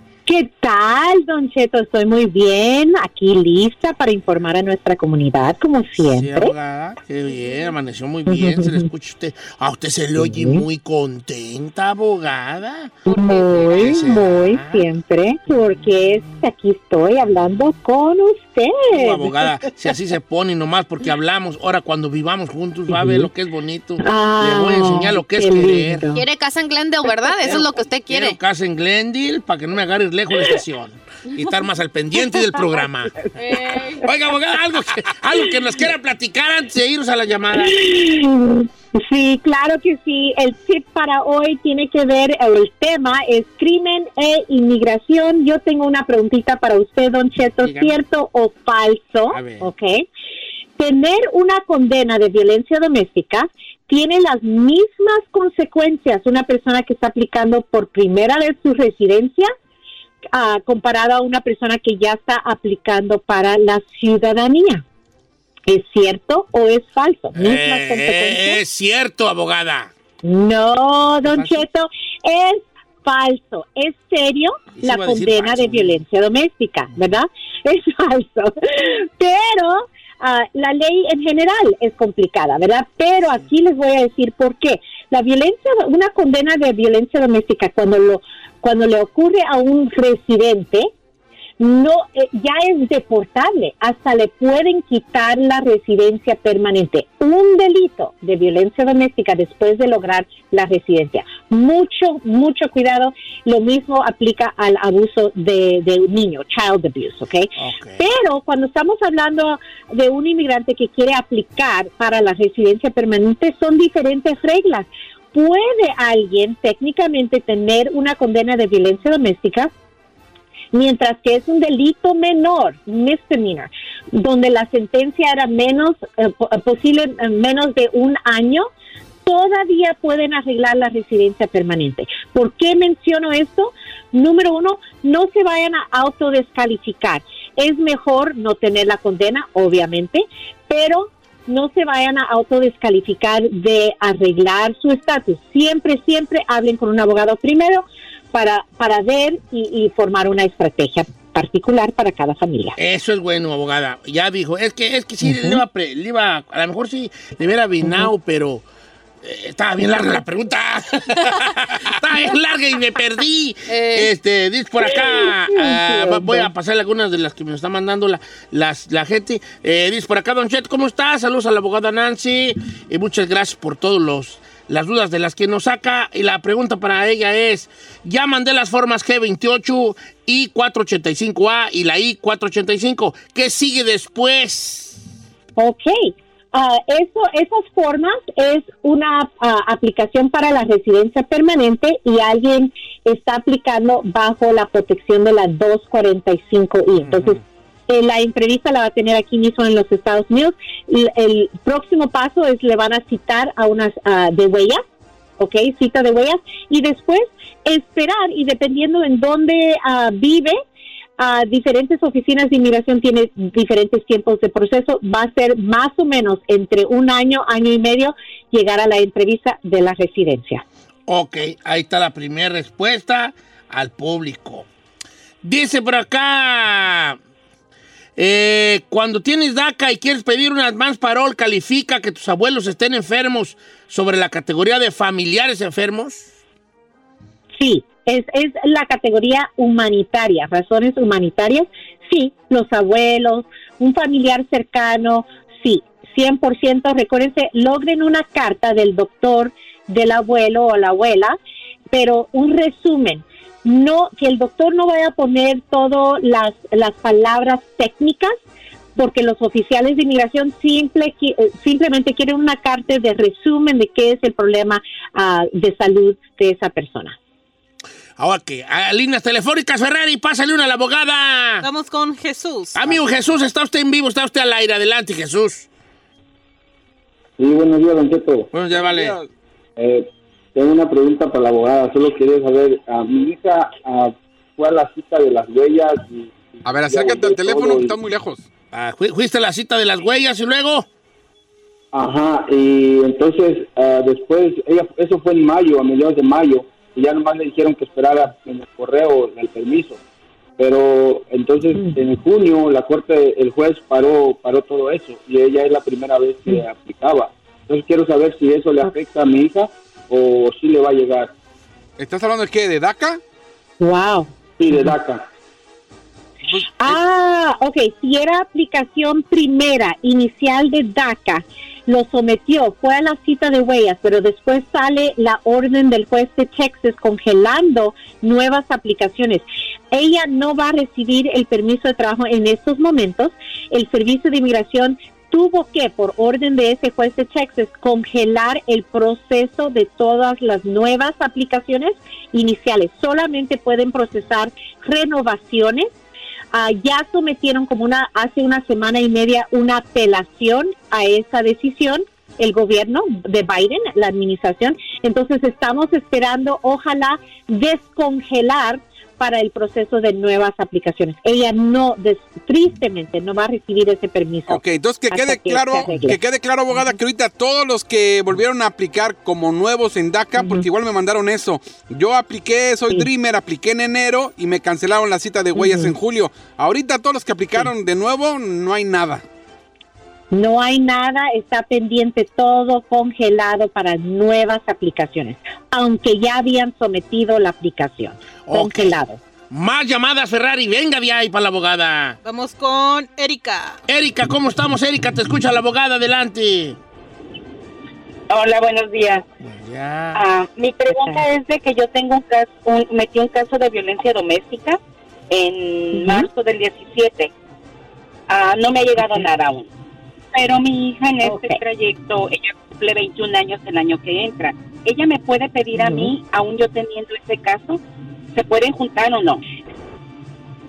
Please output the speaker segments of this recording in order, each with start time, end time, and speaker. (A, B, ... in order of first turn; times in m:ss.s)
0:00.3-0:06.5 A
0:06.1-0:14.9 B
0:08.3-0:08.9 A
0:10.2-0:10.6 A
0:13.1-0:13.9 C
0:13.1-0:19.4 A
0:18.9-0:26.1 B
0:22.9-0:23.3 A
0:24.0-0:26.2 A
0:26.1-0:28.4 C
0:27.4-0:33.2 B
0:33.4-0:34.0 C
0:34.0-0:37.8 B
0:37.6-0:50.1 A
0:47.6-0:48.0 B
0:49.3-0:49.7 B
0:50.8-0:59.5 A
1:00.3-1:04.8 A
1:05.7-1:08.6 A
1:07.4-1:09.9 B
1:10.2-1:30.9 A
1:11.2-1:11.6 B
1:14.8-1:16.0 B
1:31.6-1:59.7 A
1:47.6-1:48.0 B
2:00.7-2:08.7 A
2:09.2-2:32.8 A
2:32.8-2:38.6 B
2:35.2-2:35.6 A
2:37.8-2:38.1 A
2:39.2-3:05.0 B
2:43.7-2:44.1 C
2:44.9-2:46.5 A
3:05.6-3:24.8 A
3:25.4-3:30.6 A
3:31.2-3:40.6 A
3:41.1-3:44.7 B
3:45.4-3:47.2 B
3:48.2-3:56.3 B
3:57.6-4:11.4 A
4:11.9-4:18.4 A
4:19.0-4:27.2 A
4:28.2-4:31.7 B
4:31.6-4:32.9 D
4:32.8-4:35.7 B
4:37.4-4:38.5 E
4:38.5-4:39.2 B
4:39.8-4:48.0 E
4:46.6-4:48.4 F
4:48.7-4:50.9 B
4:51.9-5:00.0 E
5:00.6-5:11.3 E
5:12.0-5:13.2 F
5:13.8-5:14.9 A
5:14.6-5:15.3 E
5:16.5-5:17.0 F
5:16.8-5:45.9 A
5:46.5-6:06.2 A
6:04.5-6:19.2 F
6:10.4-6:10.7 A
6:15.6-6:16.0 A
6:20.3-6:29.2 A
6:28.5-6:29.0 B
6:29.5-6:32.2 B
6:32.2-6:33.8 D
6:33.9-6:36.8 B
6:38.3-6:39.2 G
6:39.4-6:40.2 B
6:40.1-6:44.8 G
6:40.9-6:41.2 A
6:45.3-6:47.3 G
6:45.9-6:46.3 A
6:48.3-6:49.7 G
6:50.3-6:57.8 G
6:51.2-6:51.6 A
6:55.7-6:56.1 A
6:58.3-6:59.4 G